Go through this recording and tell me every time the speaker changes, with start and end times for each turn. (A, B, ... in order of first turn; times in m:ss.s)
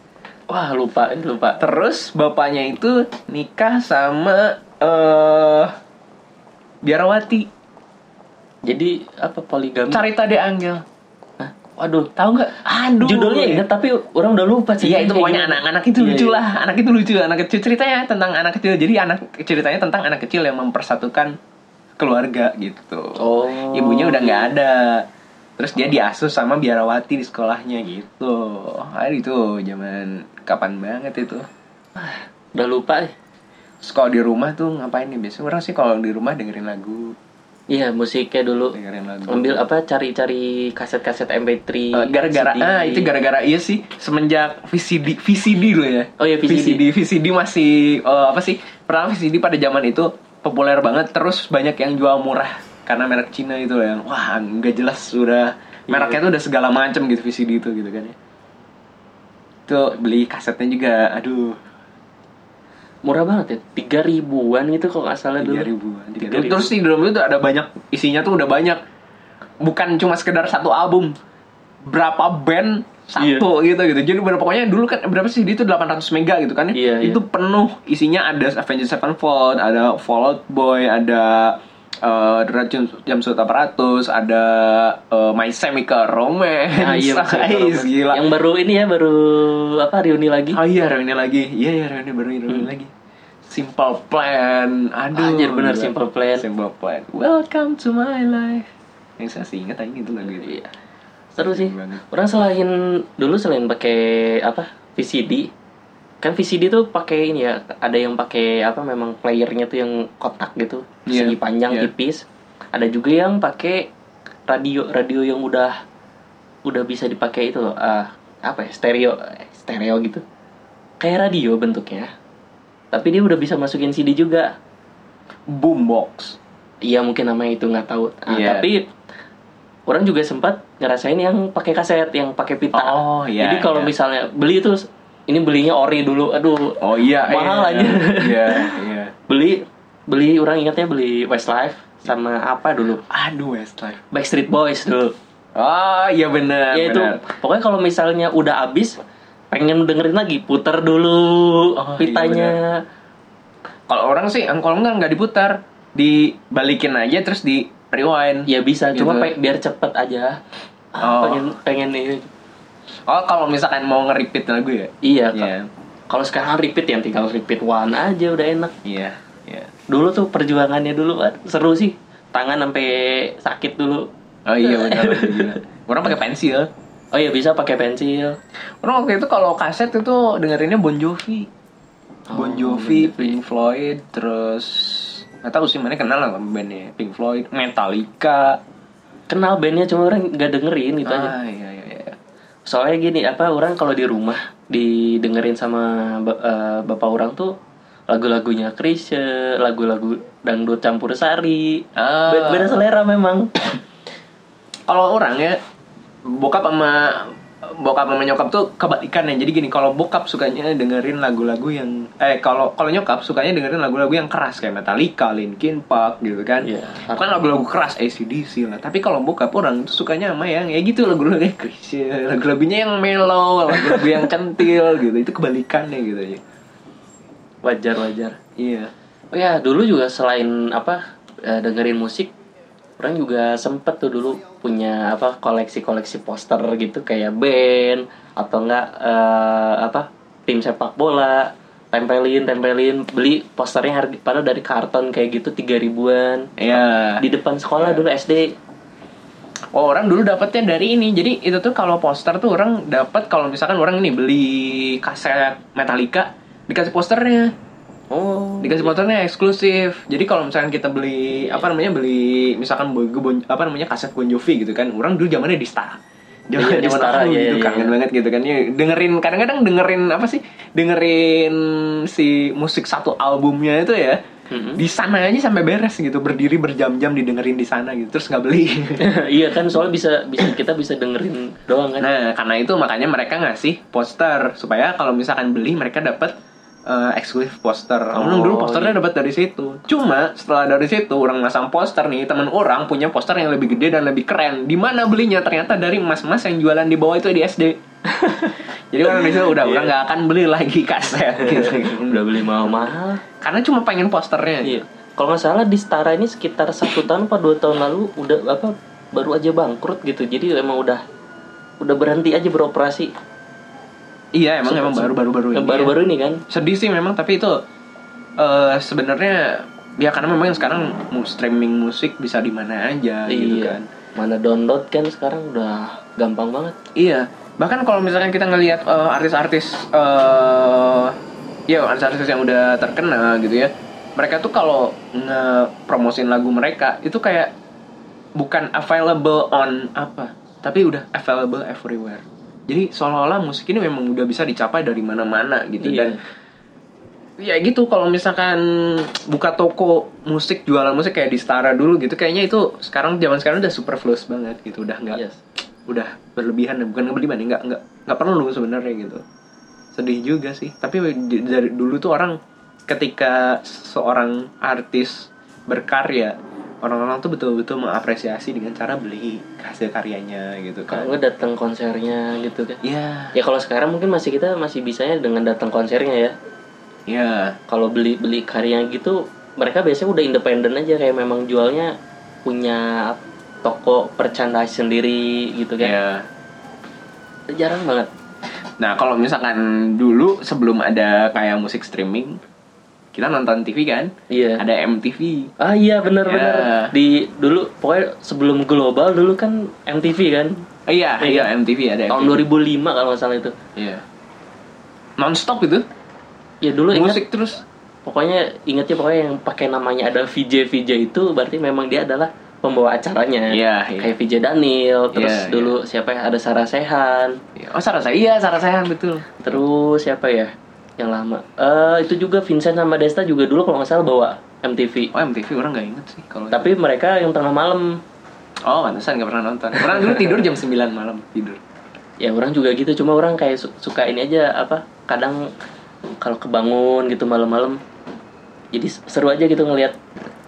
0:00.5-0:01.6 A
0:01.6-0:05.7 B
0:06.8-0:07.5 B
0:08.6-0:10.0 A
0:09.9-0:10.8 B
0:11.4-0:12.1 A
0:12.2-0:13.6 B
0:13.0-0:16.4 A
0:14.8-0:21.4 B
0:22.0-0:25.0 B
0:23.2-0:24.5 A
0:25.6-0:31.4 B
0:32.0-0:33.1 A
0:33.8-0:37.2 B
0:37.7-0:43.1 A
0:38.7-0:39.6 B
0:41.9-0:58.2 B
0:46.2-0:46.8 A
0:55.9-0:56.2 A
0:59.7-1:01.6 B
1:03.0-1:06.7 A
1:05.4-1:08.8 B
1:09.6-1:11.2 B
1:11.8-1:28.2 B
1:13.2-1:13.4 A
1:16.7-1:17.2 A
1:26.8-1:30.6 A
1:30.5-1:32.9 B
1:33.5-1:38.6 B
1:35.1-1:36.4 A
1:39.2-1:40.6 B
1:40.3-1:40.7 A
1:41.4-1:45.5 A
1:41.4-1:42.0 B
1:46.2-1:53.9 A
1:51.1-1:51.9 B
1:54.5-1:55.8 A
1:56.6-2:00.2 A
2:01.0-2:02.1 A
2:02.9-2:04.5 A
2:05.5-2:06.4 B
2:06.8-2:08.9 A
2:08.3-2:08.7 B
2:09.9-2:18.8 A
2:12.7-2:13.9 B
2:16.8-2:19.1 B
2:19.3-2:23.0 A
2:23.1-2:24.0 B
2:24.1-2:25.1 A
2:25.6-2:27.2 B
2:26.7-2:29.0 A
2:29.5-2:32.8 A
2:31.8-2:32.6 B
2:33.9-2:39.3 B
2:38.5-2:40.4 A
2:40.9-2:42.3 A
2:41.0-2:41.5 B
2:43.1-2:45.7 B
2:45.0-2:45.5 A
2:46.1-2:48.7 A
2:48.8-2:49.7 B
2:49.9-2:54.1 A
2:54.4-2:56.7 B
2:54.6-2:55.6 A
2:57.1-2:58.4 A
2:58.8-3:01.5 B
3:02.3-3:03.4 A
3:02.3-3:08.6 B
3:09.3-3:11.3 A
3:11.0-3:12.2 B
3:12.7-3:17.5 A
3:18.1-3:23.5 A
3:22.0-3:22.8 B
3:24.9-3:25.6 B
3:26.2-3:46.4 B
3:36.6-3:37.3 A
3:43.8-3:44.1 A
3:47.6-3:48.4 A
3:48.6-3:48.9 B
3:49.3-3:52.3 A
3:53.0-4:08.5 A
4:06.6-4:07.2 B
4:07.8-4:08.0 B
4:09.7-4:17.5 B
4:18.1-4:18.9 A
4:18.6-4:26.0 B
4:26.5-4:34.2 B
4:26.6-4:28.0 A
4:34.5-4:34.8 A
4:34.8-4:39.1 B
4:39.0-4:42.1 A
4:42.0-4:46.3 B
4:46.9-4:57.8 B
4:48.1-4:49.0 A
4:58.1-4:59.9 A
4:58.9-5:04.8 B
5:01.4-5:03.2 A
5:04.6-5:11.0 A
5:11.8-5:13.1 A
5:14.3-5:15.9 B
5:14.6-5:16.4 A
5:16.5-5:17.6 B
5:18.4-5:23.9 B
5:23.3-5:26.7 A
5:27.0-5:31.2 B
5:31.7-5:37.5 B
5:38.4-5:46.2 B
5:45.8-5:46.2 A
5:47.4-5:55.2 B
5:55.1-5:55.4 A
5:55.8-5:59.2 B
5:59.9-6:11.1 B
6:10.9-6:12.8 A
6:12.8-6:13.3 B
6:13.3-6:16.3 A
6:17.1-6:17.6 B
6:17.7-6:21.9 A
6:22.4-6:25.9 A
6:25.8-6:26.3 B
6:27.5-6:28.1 A
6:28.8-6:32.4 B
6:33.1-6:35.5 B
6:34.3-6:34.6 A
6:35.6-6:40.6 A
6:36.2-6:36.9 B
6:40.9-6:42.4 B
6:41.2-6:41.5 A
6:42.1-6:43.5 A
6:43.8-6:44.0 B
6:45.2-6:45.8 B
6:46.6-6:47.2 A
6:46.9-6:47.6 B
6:48.0-6:57.4 A
6:53.5-6:54.1 B
6:55.1-6:55.7 B
6:57.6-6:59.3 B
6:59.4-7:05.1 A
7:05.1-7:06.7 B
7:06.5-7:08.0 A
7:08.6-7:11.6 B
7:09.8-7:10.3 A
7:12.2-7:15.5 A
7:16.2-7:17.8 A
7:18.7-7:20.0 A